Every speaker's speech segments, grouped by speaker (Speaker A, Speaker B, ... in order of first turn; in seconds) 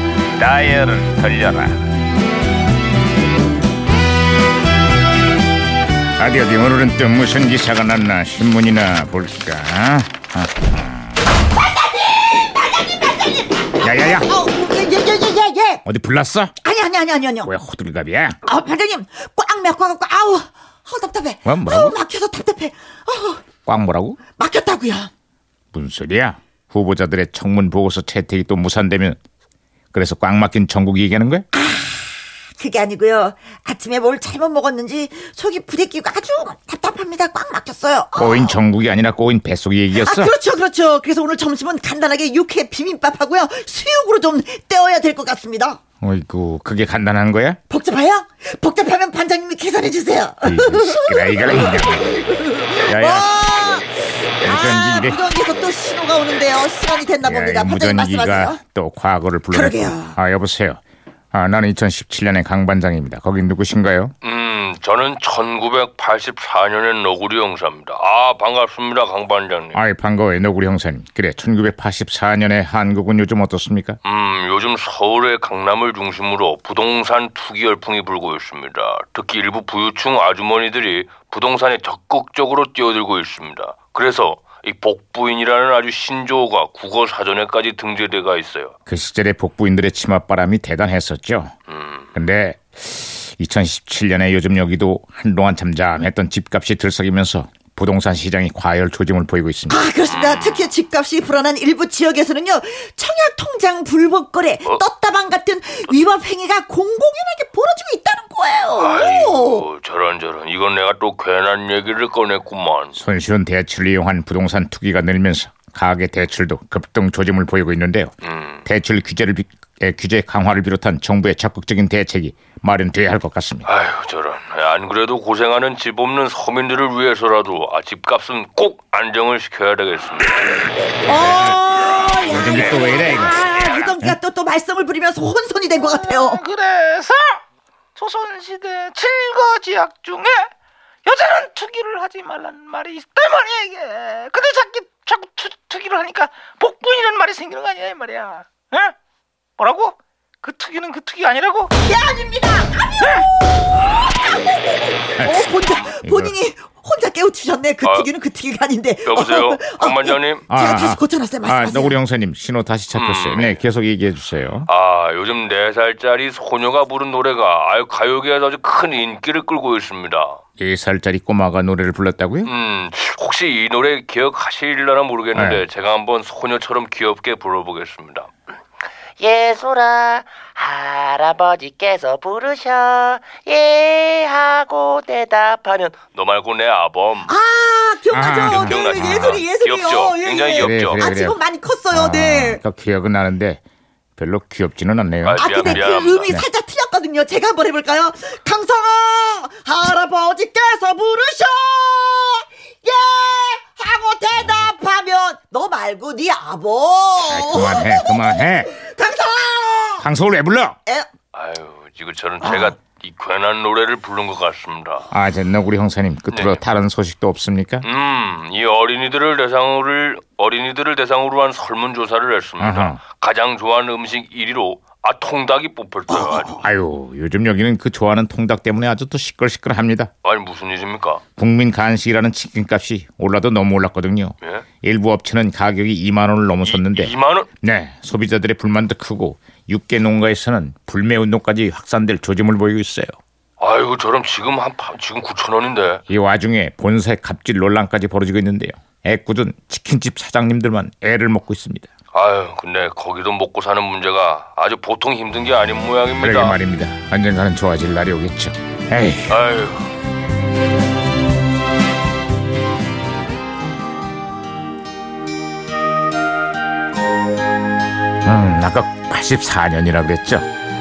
Speaker A: 0.4-1.8, 6.2-11.2, 13.8-14.3, 15.8-16.5, 17.4-18.4, 21.4-22.0, 23.6-24.2, 25.7-29.2, 29.9-31.4, 38.1-40.3, 46.0-47.6, 50.4-52.1, 52.8-53.3, 54.4-55.2, 57.2-60.8, 61.3-64.1, 69.7-74.0, 88.9-91.5, 92.1-99.9, 112.9-118.1, 118.6-123.7, 131.1-131.6, 132.2-133.4, 155.2-156.3, 160.5-164.7, 170.6-172.5, 175.3-175.6, 188.1-189.4, 190.6-193.6, 194.2-196.5, 207.3-208.7, 210.0-210.8, 215.1-217.8, 222.6-223.0, 226.5-230.1, 231.4-243.1, 246.1-251.9, 256.2-259.4, 268.2-270.5
Speaker B: 11.5-15.8, 16.6-17.5, 18.4-23.4, 24.4-25.1, 31.5-38.6, 39.9-45.8, 47.7-58.6, 59.5-60.2, 99.7-109.6, 131.0-136.4, 151.8-162.0, 187.2-192.6, 195.4-210.1
Speaker C: 64.2-69.8, 74.0-88.7, 91.7-92.1, 100.1-100.7, 108.8-113.0, 118.2-118.6, 123.7-130.6, 157.8-158.1, 159.0-160.4, 162.9-163.6, 164.7-170.4, 172.4-178.3, 186.0-187.3, 188.4-191.0, 195.2-196.3, 211.3-215.1, 216.3-216.6, 217.8-226.7, 230.2-231.2, 236.6-237.5, 243.6-246.0, 252.1-256.6, 259.3-259.9
Speaker D: 136.1-137.4, 138.0-140.5, 141.0-148.9, 149.6-151.7
Speaker E: 179.2-186.0